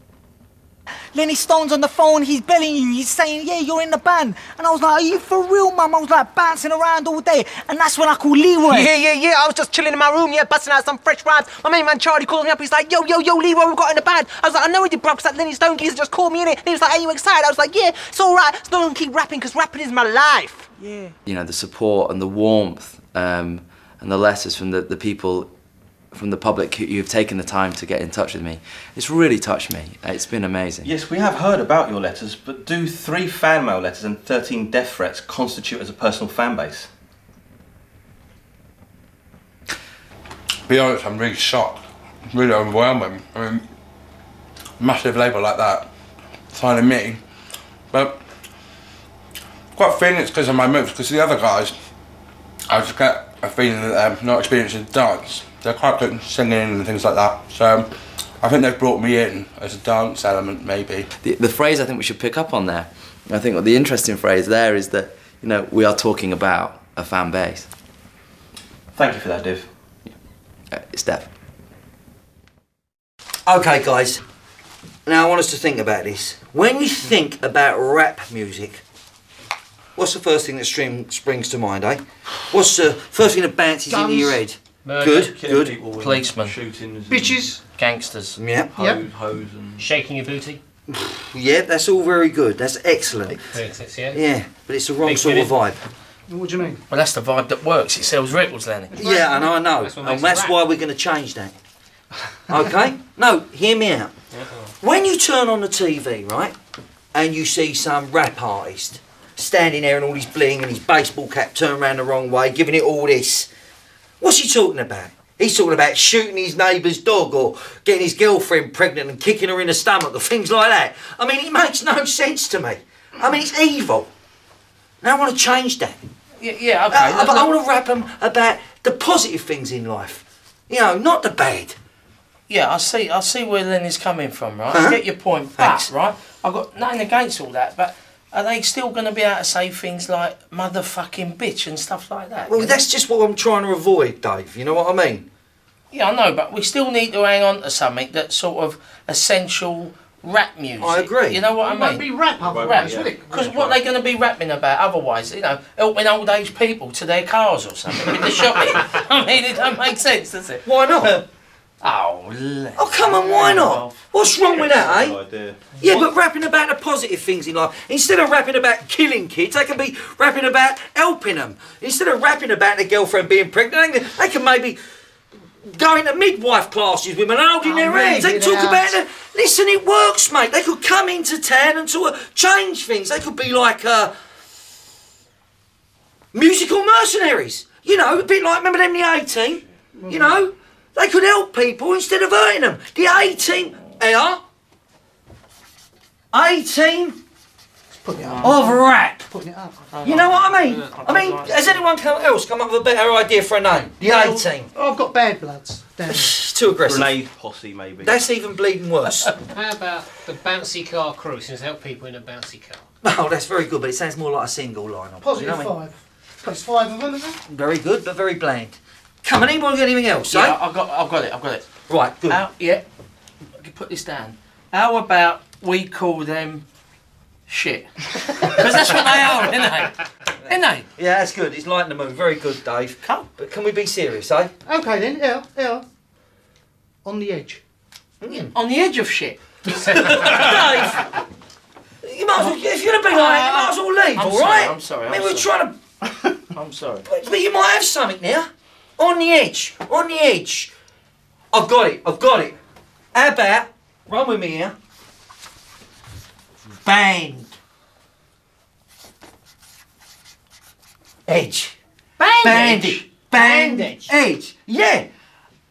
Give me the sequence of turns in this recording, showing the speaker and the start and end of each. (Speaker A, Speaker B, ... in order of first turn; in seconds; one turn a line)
Speaker A: 1.1-8.9
Speaker B: 8.7-21.1
Speaker C: 21.2-25.5
Speaker C: 26.1-30.9
Speaker D: 30.9-36.9
Speaker E: 40.7-43.6
Speaker E: 44.8-45.9
Speaker E: 46.5-47.2
Speaker E: 47.9-48.2
Speaker E: 49.7-51.8
Speaker E: 52.7-61.1
Speaker C: 61.2-67.7
Speaker D: 69.0-69.7
Speaker C: 70.7-71.3
Speaker F: 73.5-74.2
Speaker F: 75.1-78.8
Speaker F: 80.0-85.8
Speaker G: 83.9-84.4
Speaker H: 84.8-85.3
Speaker D: 85.1-87.4
Speaker I: 86.0-86.5
Speaker G: 87.1-87.6
Speaker I: 87.7-88.4
Speaker F: 88.4-88.7
Speaker D: 88.7-89.9
Speaker G: 88.8-89.0
Speaker H: 89.8-90.6
Speaker F: 90.9-93.4
Speaker H: 93.4-94.2
Speaker F: 94.1-95.8
Speaker H: 95.0-95.6
Speaker G: 96.3-96.8
Speaker I: 96.9-99.0
Speaker G: 98.9-99.6
Speaker F: 99.0-101.6
Speaker H: 99.7-100.6
Speaker F: 102.5-104.1
Speaker F: 104.8-106.6
Speaker F: 107.1-113.5
Speaker F: 114.2-124.1
Speaker F: 125.0-126.0
Speaker I: 126.4-127.5
Speaker F: 126.9-131.8
Speaker I: 132.5-142.8
Speaker F: 134.7-135.0
Speaker F: 135.6-135.9
Speaker F: 142.5-145.3
Speaker I: 145.9-160.7
Speaker F: 150.8-151.4
Speaker G: 151.6-153.6
Speaker D: 152.4-153.7
Speaker F: 160.7-161.3
Speaker I: 161.8-164.0
Speaker F: 162.8-165.2
Speaker D: 164.3-165.8
Speaker F: 165.8-174.8
Speaker F: 175.6-184.1
Speaker G: 177.6-179.0
Speaker F: 186.3-194.4
Speaker G: 190.0-190.4
Speaker F: 196.3-197.2
Speaker G: 198.0-199.8
Speaker I: 198.2-198.6
Speaker F: 198.4-199.3
Speaker I: 199.9-201.8
Speaker F: 200.0-204.7
Speaker H: 200.6-200.9
Speaker I: 204.0-204.4
Speaker G: 204.7-206.4
Speaker F: 206.1-207.2
Speaker D: 206.8-208.2
Speaker F: 208.0-209.3
Speaker H: 209.5-212.8
Speaker F: 213.0-215.8
Speaker G: 215.2-217.4
Speaker F: 217.5-220.6
Speaker I: 220.3-221.7
Speaker F: 221.9-222.4
Speaker I: 222.3-222.8
Speaker I: 223.6-226.7
Speaker I: 227.5-230.9
Speaker F: 228.6-229.6
Speaker F: 231.0-234.5
Speaker G: 234.7-235.9
Speaker G: 237.1-237.6
Speaker F: 238.2-238.5
Speaker I: 238.5-239.4
Speaker F: 239.8-241.1
Speaker F: 242.0-245.8
Speaker I: 243.1-245.5
Speaker I: 246.5-247.1
Speaker F: 247.1-250.7
Speaker F: 251.5-252.6
Speaker F: 253.1-254.8
Speaker F: 256.9-257.5
Speaker F: 261.3-261.8
Speaker I: 262.2-263.1
Speaker F: 262.4-265.1